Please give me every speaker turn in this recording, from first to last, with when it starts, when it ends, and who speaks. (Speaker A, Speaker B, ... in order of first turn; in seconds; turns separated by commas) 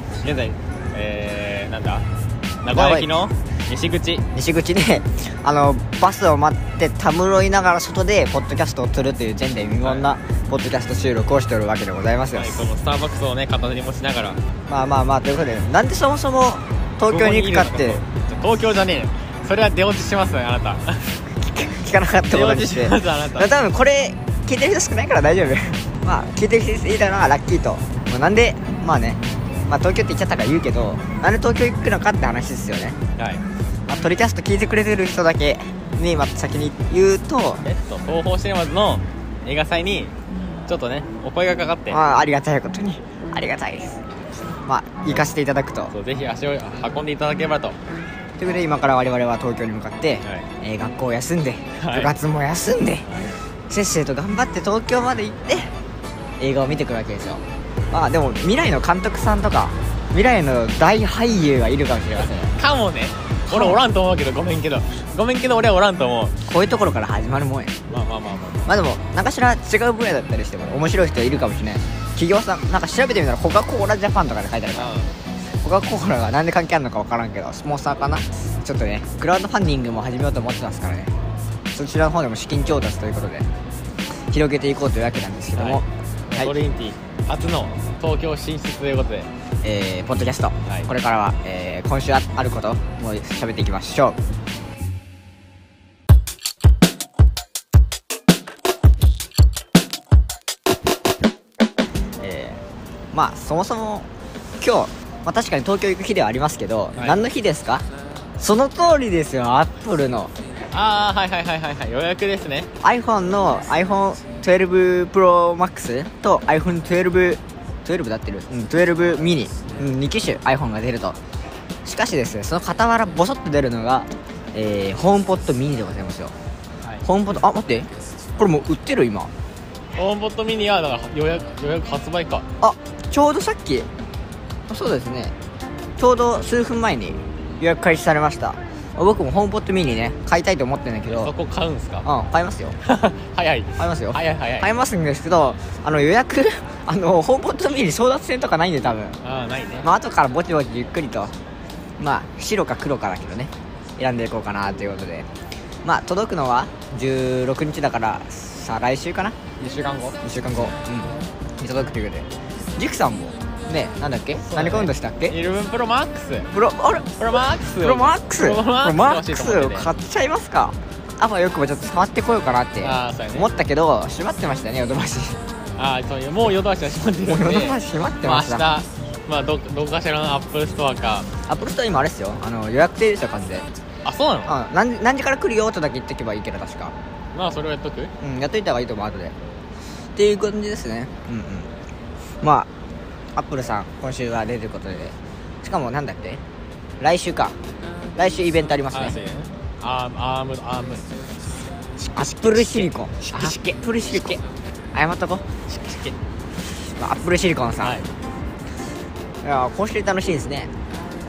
Speaker A: 0.2-2.1, Speaker A: 2.6-4.2, Speaker B: 2.7-3.1, Speaker B: 4.3-12.6, Speaker A: 12.3-14.4, Speaker B: 14.7-18.0, Speaker A: 17.0-21.1, Speaker B: 21.3-33.0, Speaker A: 22.3-23.6, Speaker A: 33.2-33.4, Speaker B: 33.9-37.6, Speaker A: 37.6-40.1, Speaker A: 40.7-42.0, Speaker B: 41.9-44.0, Speaker B: 44.7-45.9, Speaker A: 45.9-47.8, Speaker B: 48.4-53.1, Speaker A: 51.8-52.1, Speaker A: 53.1-53.4, Speaker B: 53.7-55.7, Speaker B: 56.4-62.5, Speaker A: 62.1-66.4, Speaker B: 63.5-63.8, Speaker B: 66.5-67.8, Speaker A: 67.9-68.7, Speaker B: 68.7-74.9, Speaker A: 74.7-75.1, Speaker B: 75.6-81.1, Speaker B: 81.7-83.5, Speaker B: 84.3-86.5, Speaker A: 85.5-89.3, Speaker B: 89.6-94.2, Speaker B: 102.2-102.6, Speaker B: 103.1-104.1, Speaker B: 104.6-107.8, Speaker A: 107.0-107.2, Speaker B: 108.4-110.3, Speaker A: 110.7-112.7, Speaker B: 112.8-121.2, Speaker B: 121.8-126.3, Speaker B: 127.0-129.3, Speaker A: 129.9-132.5, Speaker B: 132.6-133.9, Speaker B: 134.7-135.3, Speaker B: 136.0-141.3, Speaker A: 141.1-142.1, Speaker B: 142.0-142.8, Speaker A: 142.8-144.7, Speaker B: 143.8-149.2, Speaker A: 149.2-149.9, Speaker B: 149.8-151.3, Speaker B: 152.0-155.3, Speaker B: 155.8-159.4, Speaker A: 159.6-160.2, Speaker B: 160.2-165.4, Speaker A: 164.5-166.5, Speaker B: 166.5-167.1, Speaker A: 167.2-169.9, Speaker B: 167.8-175.4, Speaker A: 172.8-173.5, Speaker A: 175.8-181.3, Speaker B: 177.2-178.7, Speaker B: 181.5-183.7, Speaker A: 184.0-184.6, Speaker B: 184.5-186.9, Speaker A: 187.3-188.1, Speaker B: 188.2-189.3, Speaker B: 190.2-191.7, Speaker B: 192.4-192.7, Speaker B: 193.4-196.4, Speaker B: 197.0-197.6, Speaker B: 198.2-199.2, Speaker A: 198.9-201.2, Speaker A: 202.0-203.6, Speaker B: 202.2-204.4, Speaker B: 204.9-205.5, Speaker A: 205.7-206.2, Speaker B: 207.0-208.0, Speaker A: 207.8-208.1, Speaker B: 209.4-210.7